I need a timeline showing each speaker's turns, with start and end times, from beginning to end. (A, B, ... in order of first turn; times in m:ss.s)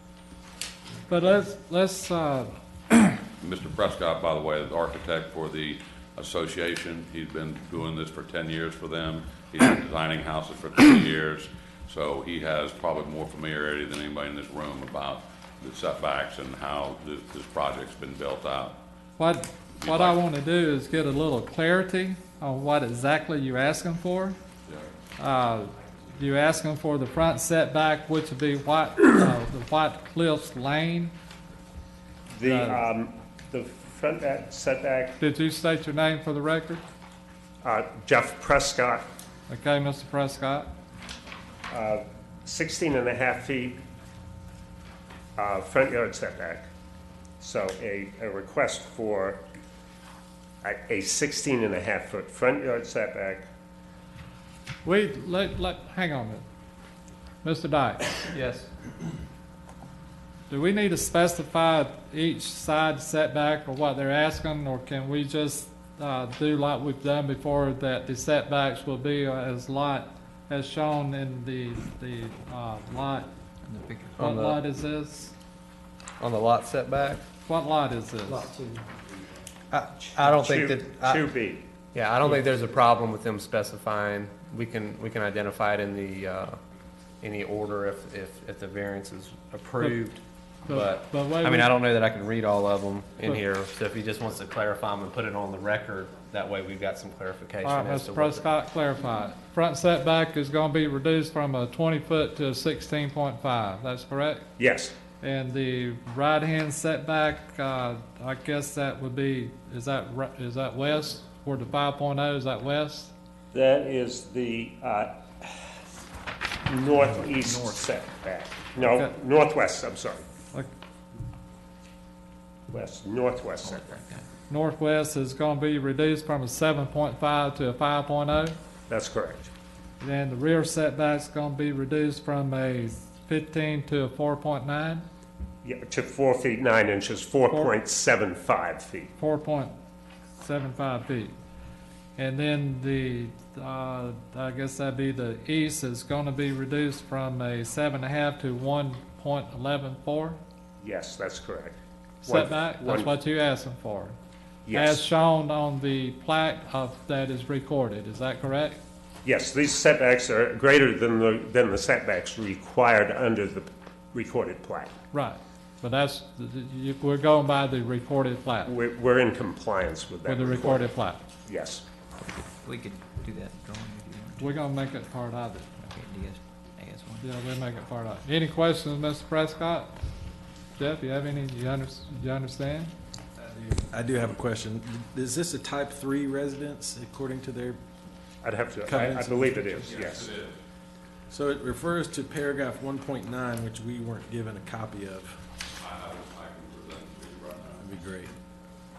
0:01.1-0:03.1 A
0:03.4-0:18.8 B
0:19.2-0:24.4 A
0:19.8-0:20.2 B
0:25.2-0:31.1 A
0:32.3-0:35.2 C
0:32.4-0:32.9 A
0:35.2-0:36.8 A
0:37.6-0:39.0 C
0:39.5-0:40.7 A
0:41.7-0:43.8 C
0:45.4-0:46.7 C
0:47.4-0:49.4 C
0:50.6-0:53.4 C
0:54.8-0:56.4 A
0:57.4-0:58.2 A
0:58.3-0:58.7 D
1:00.5-1:13.3 A
1:13.7-1:14.3 E
1:14.2-1:14.7 D
1:14.2-1:15.3 A
1:16.2-1:17.2 D
1:17.4-1:18.6 A
1:19.7-1:21.4 D
1:20.2-1:21.7 C
1:21.9-1:26.6 D
1:27.2-1:38.6 D
1:30.7-1:31.8 A
1:37.6-1:44.5 A
1:44.6-1:45.0 C
1:45.2-1:53.1 A
1:53.5-1:55.6 C
1:56.7-2:00.2 C
1:58.8-1:59.1 A
2:02.7-2:04.0 C
2:03.6-2:04.2 E
2:04.5-2:08.6 A
2:08.9-2:09.5 C
2:10.0-2:15.0 A
2:15.6-2:19.1 C
2:17.5-2:17.8 A
2:19.2-2:19.7 A
2:20.4-2:21.3 A
2:22.2-2:30.4 A
2:30.8-2:33.2 C
2:32.2-2:34.2 A
2:34.7-2:35.0 C
2:34.7-2:38.8 A
2:39.2-2:44.9 C
2:45.1-2:48.7 A
2:48.6-2:51.8 C
2:50.2-2:51.2 A
2:52.6-2:54.7 E
2:54.4-2:55.7 A
2:55.8-2:57.3 E
2:57.2-2:59.9 A
3:00.8-3:02.9 A
3:03.4-3:07.8 F
3:08.4-3:10.3 C
3:08.8-3:10.0 F
3:09.9-3:10.6 B
3:11.3-3:15.4 F
3:15.8-3:17.9 B
3:17.8-3:18.4 F